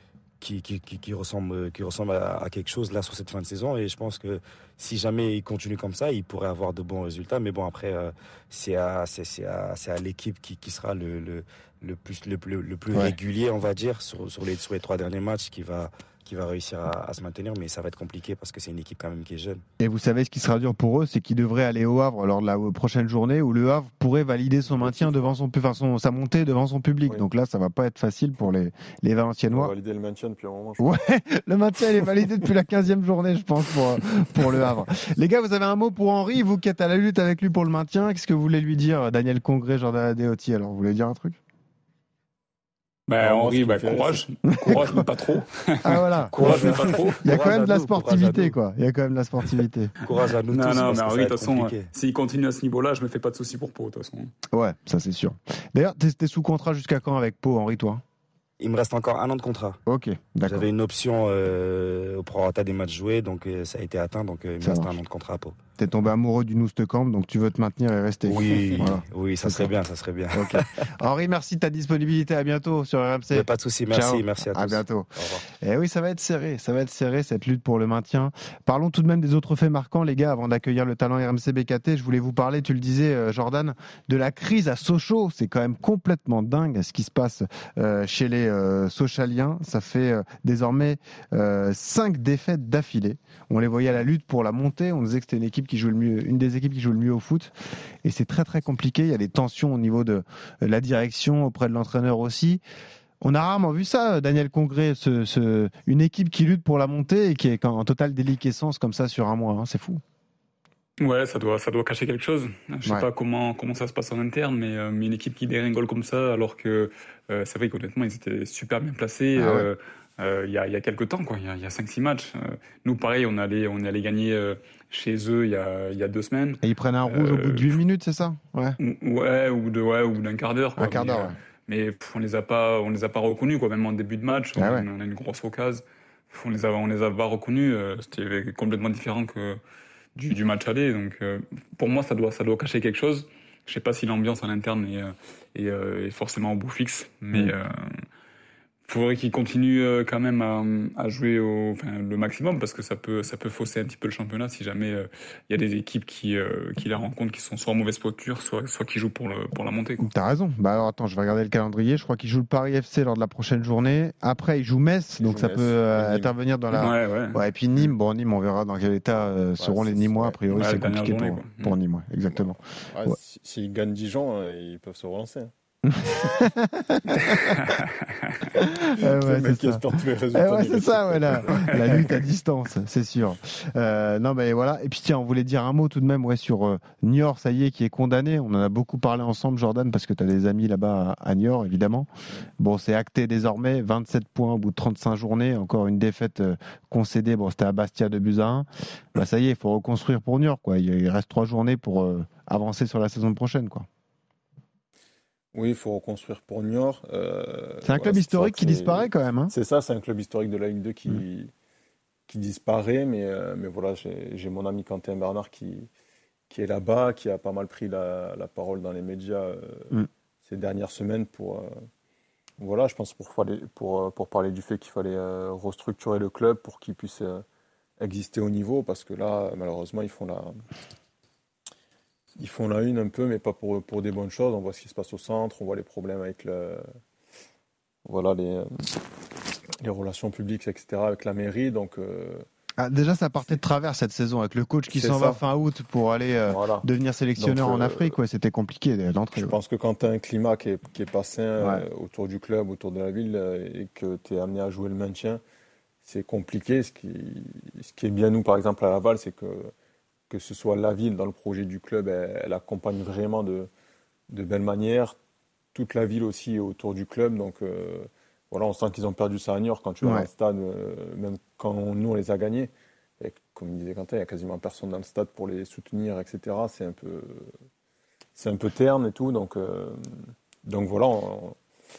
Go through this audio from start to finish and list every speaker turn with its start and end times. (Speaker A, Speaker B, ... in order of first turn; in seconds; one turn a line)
Speaker A: 0.4-19.6
Speaker B: 19.8-29.7
Speaker C: 24.8-25.2
Speaker C: 29.5-30.9
Speaker B: 30.8-41.4
Speaker D: 43.1-47.2
Speaker C: 43.2-44.9
Speaker B: 44.5-45.0
Speaker B: 45.8-49.9
Speaker A: 46.4-48.5
Speaker A: 50.0-51.9
Speaker D: 50.5-54.3
Speaker B: 54.5-58.0
Speaker A: 58.6-59.8
Speaker B: 59.9-60.7
Speaker A: 60.5-65.6
Speaker B: 64.6-65.0
Speaker B: 65.8-69.7
Speaker A: 68.3-70.7
Speaker B: 70.3-97.5
Speaker A: 73.3-75.4
Speaker B: 98.0-102.6
Speaker B: 103.2-110.0
Speaker D: 111.0-127.8
Speaker B: 119.3-119.7
Speaker B: 126.6-128.8
Speaker D: 128.8-139.6
Speaker B: 130.8-131.3
Speaker B: 134.6-134.8
Speaker D: 140.2-148.0
Speaker D: 148.8-160.1
Speaker B: 160.0-173.2
Speaker C: 165.2-166.3
Speaker D: 166.7-167.4
Speaker C: 169.6-170.4
Speaker D: 170.5-171.8
Speaker C: 172.3-175.5
Speaker B: 175.9-177.5
Speaker D: 177.6-178.3
Speaker B: 178.5-192.1
Speaker C: 179.0-182.1
Speaker D: 181.7-182.0
Speaker B: 192.6-203.8
Speaker C: 205.5-211.5
Speaker B: 207.8-209.5
Speaker C: 212.3-215.9
Speaker C: 216.5-221.7
Speaker C: 222.6-227.4
Speaker C: 228.0-230.5
Speaker C: 232.4-236.8
Speaker C: 238.0-238.8
Speaker C: 239.8-242.4
Speaker B: 242.8-249.5
Speaker C: 244.9-245.4
Speaker C: 246.5-246.8
Speaker C: 247.4-248.2
Speaker C: 249.3-255.4
Speaker C: 256.0-259.7
Speaker C: 260.3-263.7
Speaker C: 264.3-265.1
Speaker C: 265.7-277.5
Speaker B: 270.0-270.3
Speaker C: 278.4-281.6